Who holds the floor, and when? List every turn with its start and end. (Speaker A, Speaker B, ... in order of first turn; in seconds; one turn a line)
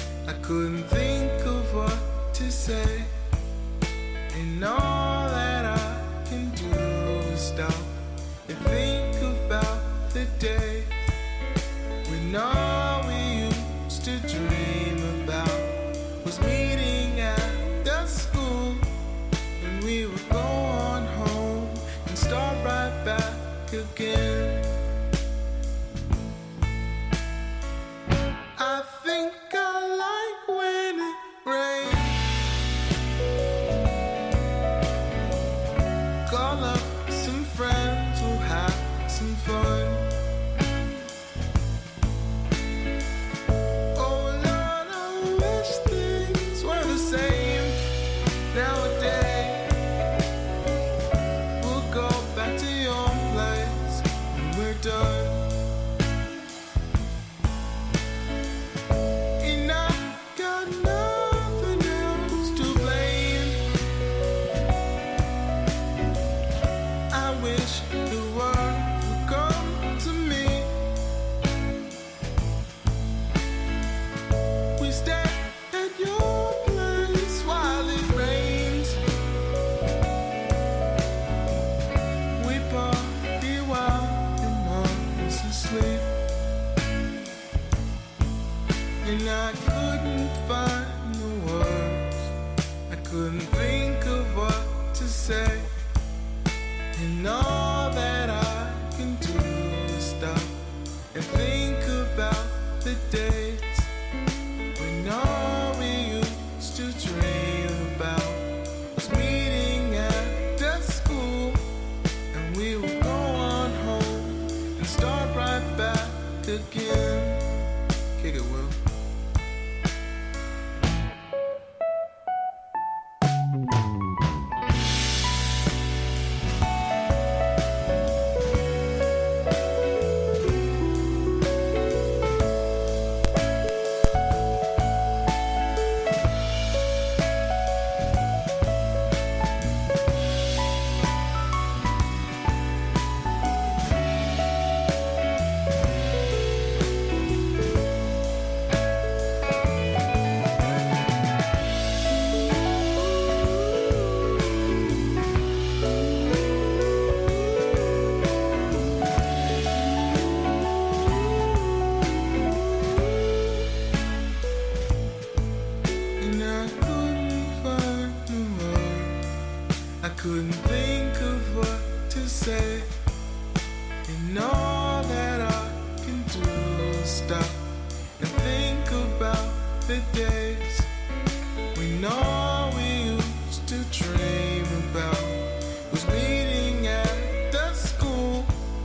Speaker A: 0.2-3.1
Speaker A: 4.3-11.0
Speaker A: 12.0-18.9
Speaker A: 19.6-24.7
Speaker A: 28.6-32.3
Speaker A: 36.2-40.1
Speaker A: 43.9-47.8
Speaker A: 48.5-49.7
Speaker A: 51.6-55.5
Speaker A: 59.4-63.6
Speaker A: 67.1-70.7
Speaker A: 74.8-79.0
Speaker A: 82.3-86.1
Speaker A: 89.0-92.3
Speaker A: 92.9-95.7
Speaker A: 96.9-100.6
Speaker A: 101.1-103.9
Speaker A: 104.7-111.6
Speaker A: 112.3-117.5
Speaker A: 118.2-118.8
Speaker A: 166.2-169.2
Speaker A: 170.0-172.9
Speaker A: 174.1-180.9
Speaker A: 181.7-188.5